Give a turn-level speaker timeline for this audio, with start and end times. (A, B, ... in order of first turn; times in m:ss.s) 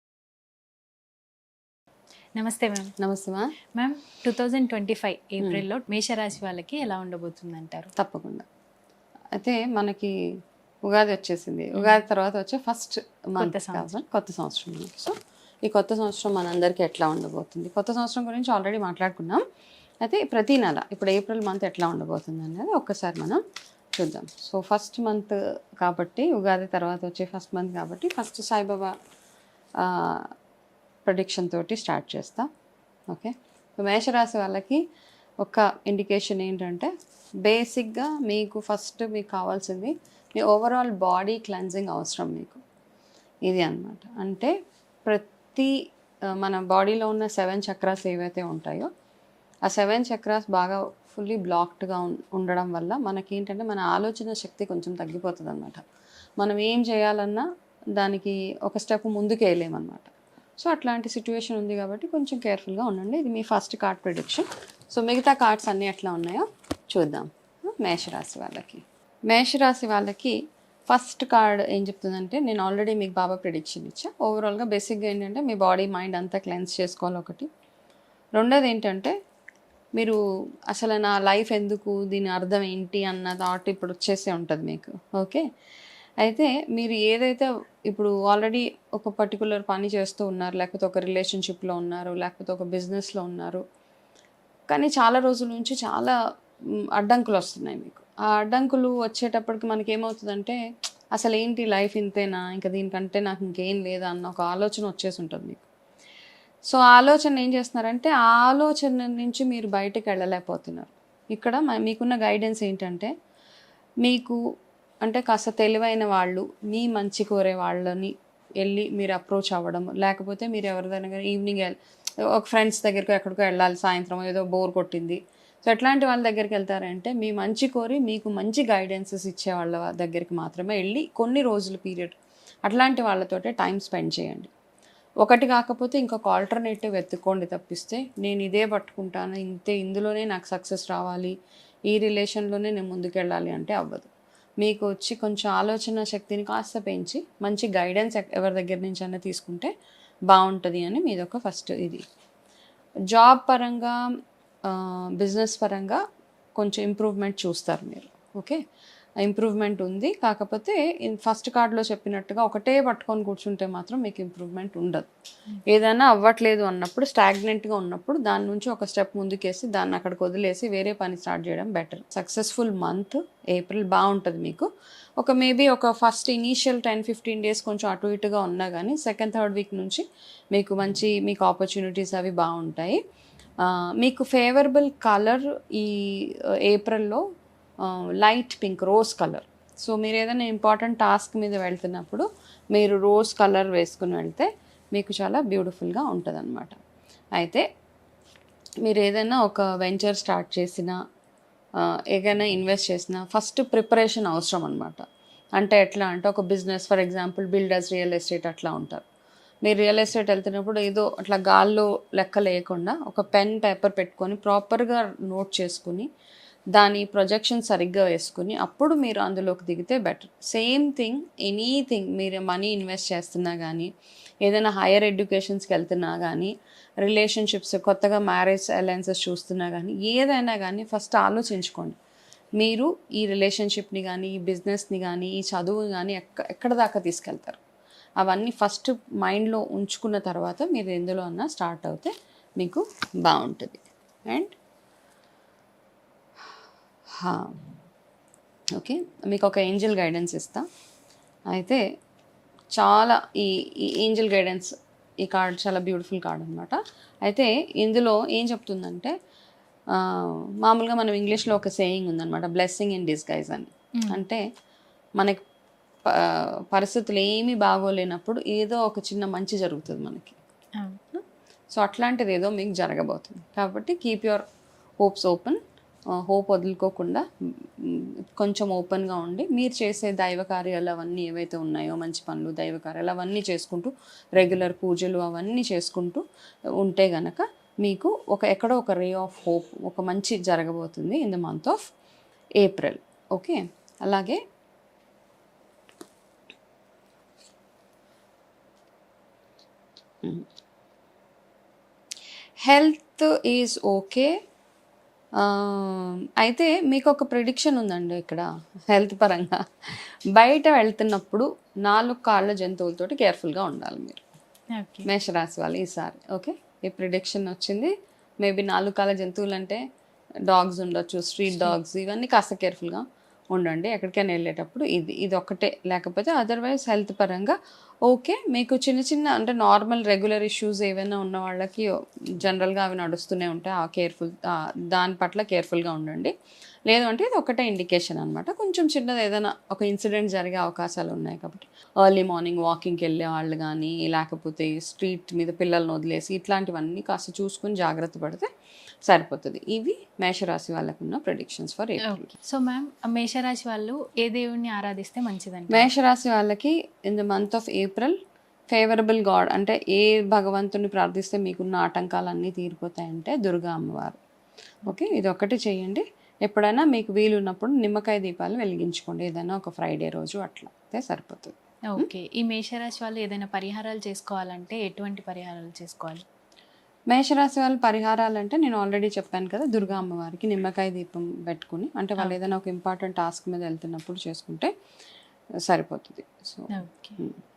0:02.4-0:02.9 A
0:03.0-0:03.5 B
0:03.8-0:07.9 A
0:08.0-0:08.4 B
0:09.3-0:10.1 B
0:10.8-0:15.1 B
0:13.4-0:13.9 A
0:15.6-0:19.4 B
0:20.0-0:23.4 B
0:24.0-0:28.9 B
0:29.8-0:30.3 B
0:31.1-0:32.5 B
0:33.1-0:34.8 B
0:35.4-0:36.9 B
0:37.4-0:42.6 B
0:43.4-0:44.5 B
0:45.1-0:45.7 B
0:46.4-0:48.9 B
0:49.7-0:55.8 B
0:56.4-1:10.4 B
1:10.9-1:17.5 B
1:18.4-1:19.1 B
1:20.7-1:25.4 B
1:26.2-1:33.6 B
1:34.7-1:36.1 B
1:37.0-1:40.6 B
1:41.1-1:45.6 B
1:46.7-1:53.1 B
1:54.0-1:54.4 B
1:55.0-2:01.8 B
2:02.3-2:12.1 B
2:12.6-2:14.5 B
2:15.2-2:21.3 B
2:21.9-2:24.1 B
2:24.6-2:29.7 B
2:30.3-2:32.0 B
2:33.1-2:33.9 B
2:34.7-2:36.0 B
2:36.6-2:38.6 B
2:39.2-2:45.1 B
2:45.6-2:54.6 B
2:55.2-3:03.0 B
3:03.6-3:06.1 B
3:06.6-3:07.2 B
3:07.8-3:16.8 B
3:17.4-3:17.6 B
3:18.8-3:21.0 B
3:21.8-3:25.0 B
3:25.6-3:29.0 B
3:29.6-3:36.0 B
3:36.7-3:43.9 B
3:44.4-3:46.5 B
3:47.0-3:52.0 B
3:52.6-3:57.6 B
3:58.2-4:04.5 B
4:07.2-4:07.5 B
4:08.8-4:10.6 B
4:11.5-4:11.8 B
4:12.8-4:14.7 B
4:15.2-4:19.1 B
4:19.9-4:24.4 B
4:24.0-4:24.2 A
4:26.1-4:30.4 B
4:31.7-4:34.4 B
4:35.0-4:35.6 B
4:36.2-4:37.2 B
4:37.8-4:46.2 B
4:46.8-4:51.8 B
4:52.6-4:54.4 B
5:02.6-5:04.3 B
5:05.4-5:14.2 B
5:14.8-5:15.1 A
5:15.0-5:19.8 B
5:20.5-5:27.5 B
5:21.5-5:21.7 A
5:28.1-5:31.9 B
5:32.4-5:36.3 B
5:36.9-5:48.5 B
5:49.0-5:52.3 B
5:52.0-5:55.9 A
5:55.7-5:58.1 B
5:58.7-6:04.2 B
6:04.8-6:12.1 B
6:11.9-6:16.2 A
6:17.1-6:24.7 B
6:25.6-6:27.4 B
6:26.7-6:27.2 A